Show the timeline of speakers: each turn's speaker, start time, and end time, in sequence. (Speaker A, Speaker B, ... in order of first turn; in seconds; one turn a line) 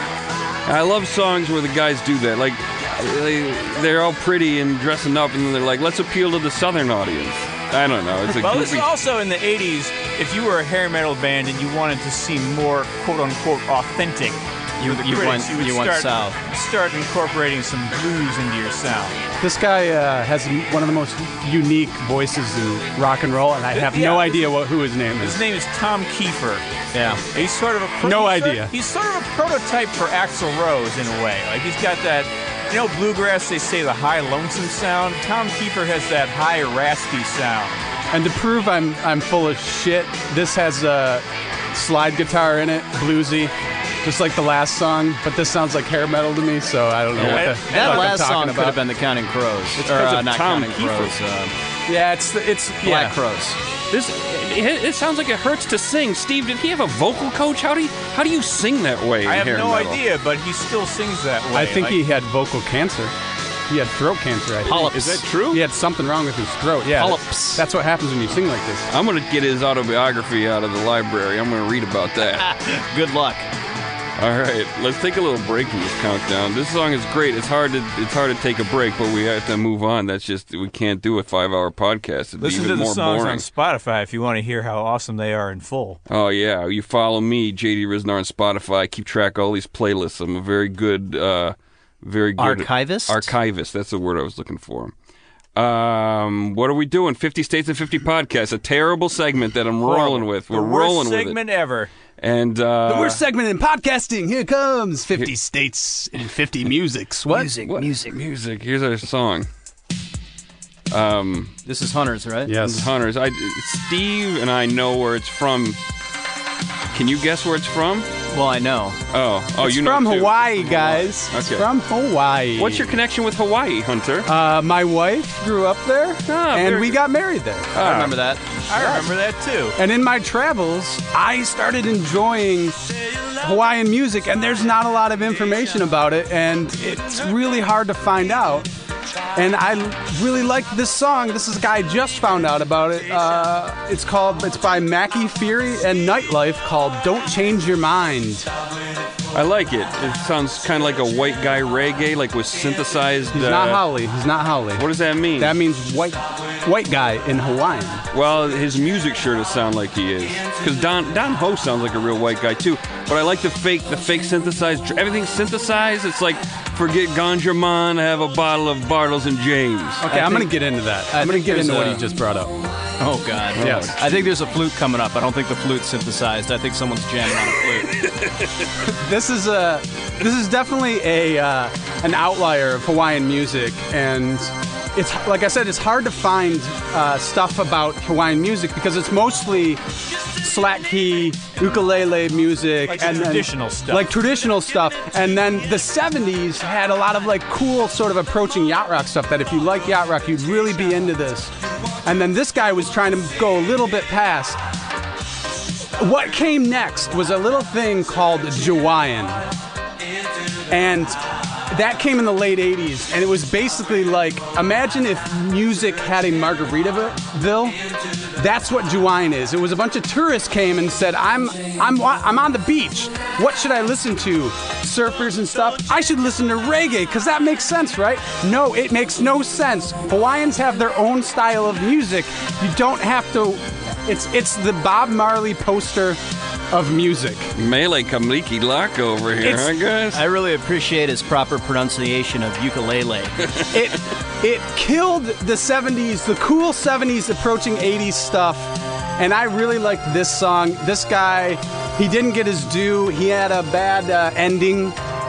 Speaker A: 0.7-8.9
Speaker B: 8.4-19.2
Speaker C: 14.8-16.4
Speaker D: 19.4-25.4
Speaker B: 23.7-24.5
Speaker B: 25.2-26.6
Speaker C: 26.9-27.2
Speaker B: 27.2-37.8
Speaker D: 28.0-28.7
Speaker D: 38.1-48.8
Speaker A: 47.2-47.5
Speaker C: 47.2-51.5
Speaker B: 47.3-48.2
Speaker A: 49.8-51.1
Speaker D: 51.9-53.1
Speaker C: 52.8-53.6
Speaker A: 53.9-60.0
Speaker B: 59.2-62.0
Speaker D: 61.5-63.1
Speaker D: 63.7-68.9
Speaker C: 64.6-65.6
Speaker C: 66.8-67.7
Speaker A: 68.9-72.5
Speaker C: 72.4-73.5
Speaker A: 74.2-83.5
Speaker B: 82.4-86.0
Speaker A: 86.1-94.9
Speaker C: 92.4-93.3
Speaker A: 95.5-101.4
Speaker B: 99.8-101.9
Speaker A: 102.2-103.2
Speaker D: 102.8-107.5
Speaker C: 107.3-108.2
Speaker A: 107.6-109.5
Speaker A: 110.9-111.5
Speaker C: 111.6-112.5
Speaker D: 112.5-112.9
Speaker A: 112.6-115.8
Speaker A: 116.9-118.1
Speaker C: 118.3-119.0
Speaker A: 119.1-121.7
Speaker D: 119.6-122.9
Speaker A: 122.6-124.3
Speaker D: 124.2-127.7
Speaker A: 126.3-127.0
Speaker A: 127.7-128.2
Speaker C: 127.8-128.4
Speaker B: 128.7-129.8
Speaker D: 128.8-129.0
Speaker D: 129.8-132.8
Speaker D: 133.3-138.7
Speaker D: 139.3-148.5
Speaker A: 149.3-153.8
Speaker D: 153.3-154.9
Speaker A: 154.8-155.6
Speaker D: 155.4-158.0
Speaker A: 158.1-170.1
Speaker D: 170.0-172.6
Speaker C: 170.1-170.5
Speaker C: 171.1-172.0
Speaker C: 173.0-177.9
Speaker A: 173.6-174.2
Speaker D: 173.6-174.0
Speaker A: 178.0-178.4
Speaker D: 178.8-201.5
Speaker B: 192.8-194.1
Speaker D: 202.0-204.6
Speaker D: 206.0-209.5
Speaker D: 210.7-217.8
Speaker D: 218.3-236.2
Speaker D: 236.7-237.5
Speaker A: 237.5-240.2
Speaker D: 239.4-239.7
Speaker C: 240.1-243.5
Speaker D: 243.7-255.0